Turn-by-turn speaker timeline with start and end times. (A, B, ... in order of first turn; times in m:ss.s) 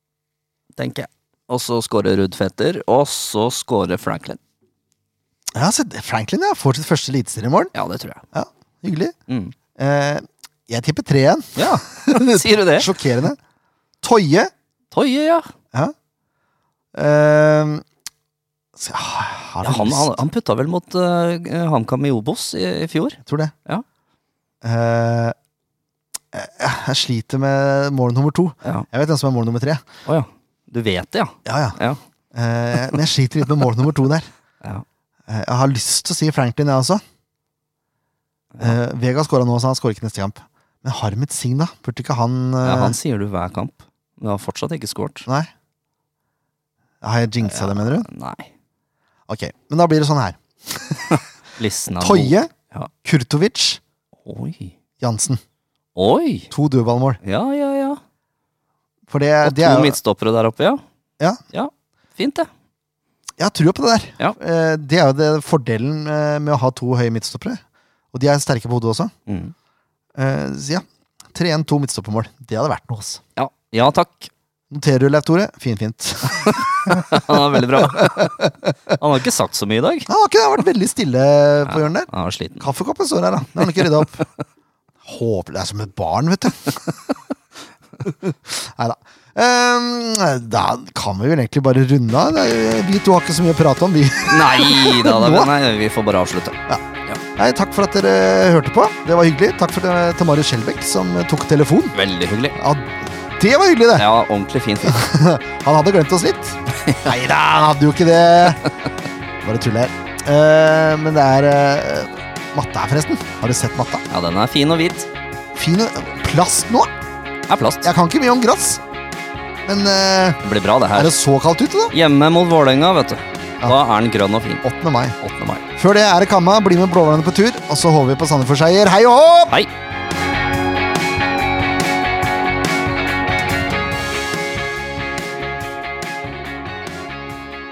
0:00.7-0:04.4 A
0:05.5-0:07.7 B
0:07.7-0:08.2 A
0:08.3-0:09.1 B
0:09.3-0:09.5 A
0:09.8-0:13.4 B
0:11.6-0:12.9 A
0:14.0-0:14.5 B
0:14.9-0:15.5 A
0:16.9-0:17.8 B
0:18.8-0:20.2 B
0:19.6-0:23.8 A
0:23.2-0:23.5 B
0:24.6-0:25.4 B
0:26.3-0:29.8 B
0:30.0-0:32.0 A
0:31.4-0:31.8 B
0:32.3-0:34.3 B
0:35.3-0:37.0 B
0:38.6-0:43.0 B
0:42.6-0:45.2 A
0:47.0-0:48.1 B
0:47.4-0:48.5 A
0:49.3-0:51.2 B
0:51.6-0:52.9 A
0:52.0-0:52.5 B
0:53.0-0:53.8 B
0:54.2-0:54.7 A
0:55.0-0:55.4 B
0:55.9-0:56.5 A
0:56.5-0:57.2 B
0:57.2-0:58.0 A
0:59.1-1:00.0 B
0:59.4-1:00.8 A
1:01.5-1:02.5 A
1:03.4-1:07.6 B
1:08.1-1:09.1 B
1:09.3-1:09.5 A
1:10.2-1:13.2 B
1:13.4-1:14.3 A
1:14.7-1:19.0 B
1:16.3-1:18.4 A
1:19.0-1:20.1 A
1:20.1-1:24.2 B
1:21.7-1:22.6 A
1:23.5-1:24.3 A
1:25.0-1:26.9 B
1:28.0-1:35.5 B
1:34.2-1:37.2 A
1:37.4-1:41.9 B
1:41.9-1:42.6 A
1:42.6-1:44.0 B
1:43.9-1:45.1 A
1:44.8-1:48.6 B
1:49.4-1:54.0 B
1:54.1-1:55.1 A
1:55.5-1:56.9 B
1:57.5-1:57.9 A
1:57.8-1:58.8 B
1:59.6-2:00.4 B
2:00.4-2:01.2 A
2:00.9-2:01.9 B
2:01.9-2:04.6 A
2:04.6-2:05.2 B
2:05.2-2:05.6 A
2:05.8-2:09.6 B